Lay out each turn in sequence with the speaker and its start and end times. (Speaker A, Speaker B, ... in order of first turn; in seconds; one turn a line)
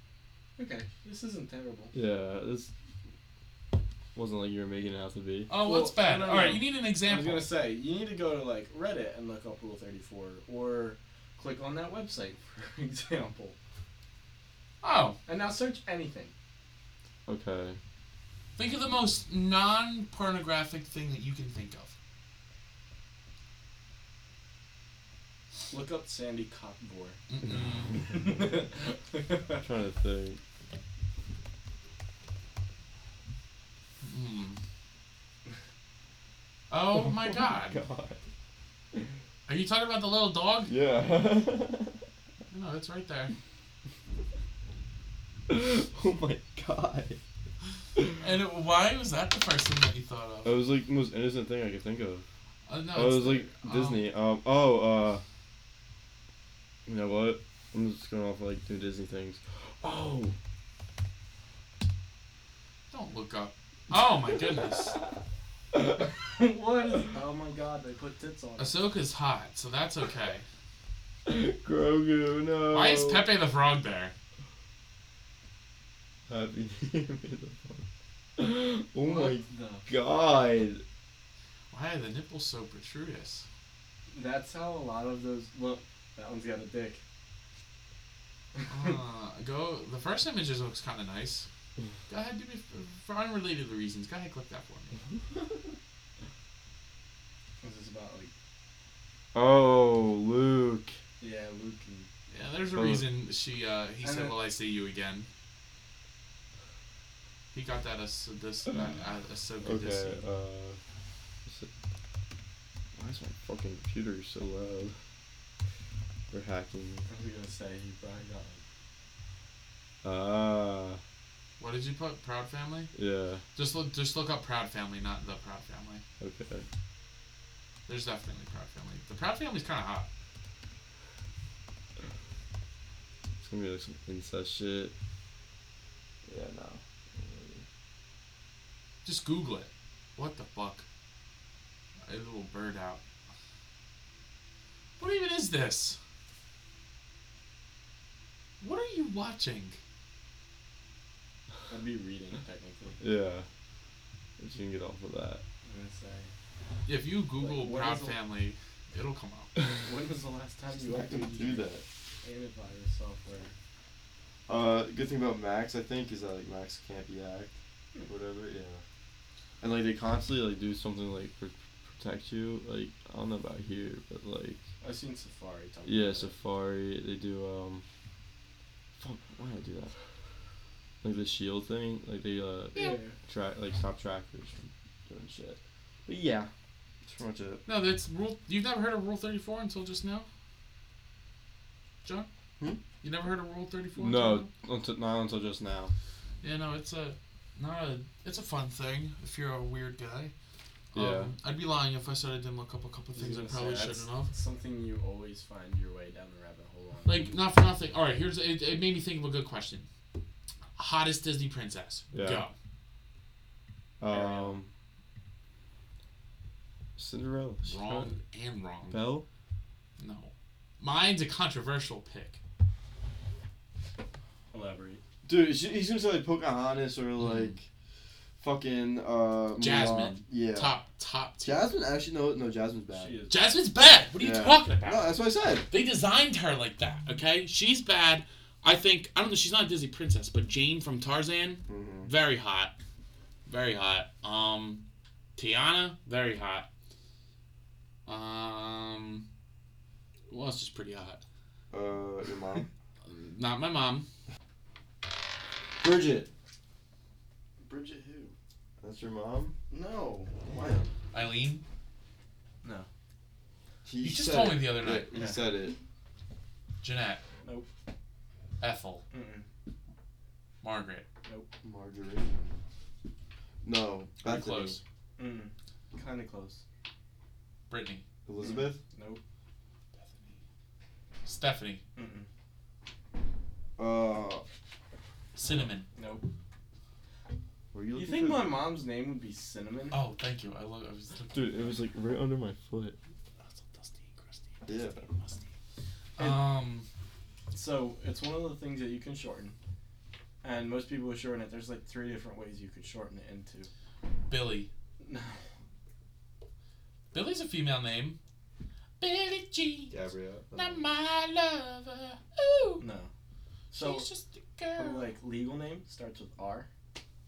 Speaker A: 0.6-1.9
Speaker B: 1.9-2.7
Speaker B: 4.1-5.5
Speaker C: 5.5-7.5
Speaker A: 5.6-13.6
Speaker C: 14.8-15.2
Speaker A: 15.2-16.3
Speaker B: 17.3-17.8
Speaker C: 18.6-21.9
Speaker A: 25.7-27.2
Speaker C: 27.3-28.0
Speaker A: 27.9-29.6
Speaker B: 29.6-30.4
Speaker C: 34.0-34.6
Speaker C: 36.7-37.8
Speaker B: 36.9-38.2
Speaker C: 39.5-40.7
Speaker B: 40.7-42.0
Speaker C: 42.5-43.3
Speaker B: 45.5-47.2
Speaker C: 48.2-50.6
Speaker B: 50.4-52.2
Speaker C: 52.7-54.1
Speaker B: 52.9-55.2
Speaker B: 56.9-60.3
Speaker C: 62.9-65.0
Speaker A: 66.0-68.8
Speaker C: 68.6-70.4
Speaker B: 71.2-73.3
Speaker C: 72.7-74.1
Speaker B: 76.3-77.8
Speaker B: 78.4-80.8
Speaker A: 79.0-79.9
Speaker C: 81.7-83.5
Speaker A: 84.1-87.0
Speaker A: 88.5-89.0
Speaker C: 88.7-91.5
Speaker C: 92.1-95.0
Speaker A: 97.6-98.3
Speaker B: 99.3-101.0
Speaker A: 101.2-102.1
Speaker C: 102.3-105.3
Speaker B: 102.7-103.1
Speaker A: 104.0-104.4
Speaker C: 107.5-110.2
Speaker B: 109.6-110.8
Speaker B: 112.9-115.0
Speaker B: 116.3-117.0
Speaker A: 117.1-118.6
Speaker B: 120.0-121.0
Speaker C: 121.6-122.9
Speaker B: 122.9-123.4
Speaker C: 123.5-126.0
Speaker B: 126.2-126.7
Speaker C: 127.9-130.1
Speaker B: 133.4-134.9
Speaker B: 136.2-137.6
Speaker C: 139.0-140.8
Speaker C: 142.1-143.0
Speaker C: 145.0-146.0
Speaker C: 148.6-149.8
Speaker A: 151.7-153.0
Speaker B: 153.0-153.5
Speaker B: 154.4-155.4
Speaker A: 155.6-156.3
Speaker C: 156.8-159.5
Speaker A: 157.4-158.2
Speaker A: 159.8-161.7
Speaker B: 160.7-161.8
Speaker A: 162.2-163.5
Speaker B: 164.5-167.6
Speaker B: 168.1-168.8
Speaker B: 169.6-174.6
Speaker A: 174.8-176.3
Speaker B: 175.8-177.8
Speaker B: 178.9-179.9
Speaker B: 181.0-186.5
Speaker A: 182.7-183.2
Speaker B: 187.0-187.6
Speaker C: 187.7-190.3
Speaker C: 193.0-194.5
Speaker B: 194.0-195.9
Speaker C: 196.4-200.3
Speaker B: 200.9-201.3
Speaker C: 200.9-204.3
Speaker A: 203.1-207.3
Speaker C: 207.0-209.9
Speaker C: 210.8-212.5
Speaker B: 212.1-212.4
Speaker B: 214.0-214.7
Speaker A: 214.1-214.6
Speaker B: 217.0-218.1
Speaker C: 217.6-219.0
Speaker B: 218.9-219.2
Speaker C: 220.0-222.4
Speaker A: 224.5-225.0
Speaker B: 225.2-227.6
Speaker B: 228.4-230.7
Speaker C: 229.6-231.6
Speaker B: 231.4-233.2
Speaker A: 232.9-233.4
Speaker C: 233.3-235.2
Speaker B: 234.2-235.7
Speaker C: 235.7-242.7
Speaker B: 241.7-242.1
Speaker C: 243.4-244.8
Speaker C: 245.3-246.7
Speaker C: 248.1-249.2
Speaker C: 250.3-251.2
Speaker B: 251.7-252.7
Speaker C: 253.0-254.1
Speaker B: 255.8-256.3
Speaker A: 257.6-258.3
Speaker B: 258.8-259.6
Speaker A: 259.7-260.8
Speaker B: 260.5-260.9
Speaker C: 261.1-261.6
Speaker A: 262.6-262.9
Speaker B: 263.8-265.8
Speaker C: 264.0-265.1
Speaker A: 265.1-265.4
Speaker C: 266.8-267.2
Speaker C: 268.6-269.0
Speaker A: 269.1-269.4
Speaker C: 270.6-271.1
Speaker B: 271.6-272.6
Speaker B: 273.6-274.8
Speaker C: 274.2-274.8
Speaker A: 275.2-276.6
Speaker C: 277.7-278.0
Speaker B: 278.2-278.8
Speaker A: 278.4-279.2
Speaker C: 280.0-280.3
Speaker C: 281.2-281.8
Speaker A: 281.9-282.3
Speaker B: 283.8-284.4
Speaker C: 285.4-285.9
Speaker A: 285.4-286.3
Speaker B: 287.7-288.6
Speaker A: 287.9-290.0
Speaker C: 289.9-291.8
Speaker B: 291.3-293.0
Speaker C: 293.4-295.5
Speaker B: 294.6-295.1
Speaker C: 296.2-296.9
Speaker A: 297.5-299.6
Speaker A: 300.4-303.7
Speaker C: 304.3-304.7
Speaker A: 305.0-305.4
Speaker C: 307.1-308.2
Speaker C: 309.0-310.0
Speaker B: 309.9-310.9
Speaker C: 310.5-312.8
Speaker A: 312.8-313.1
Speaker A: 313.7-314.1
Speaker C: 313.7-315.1
Speaker A: 314.8-316.7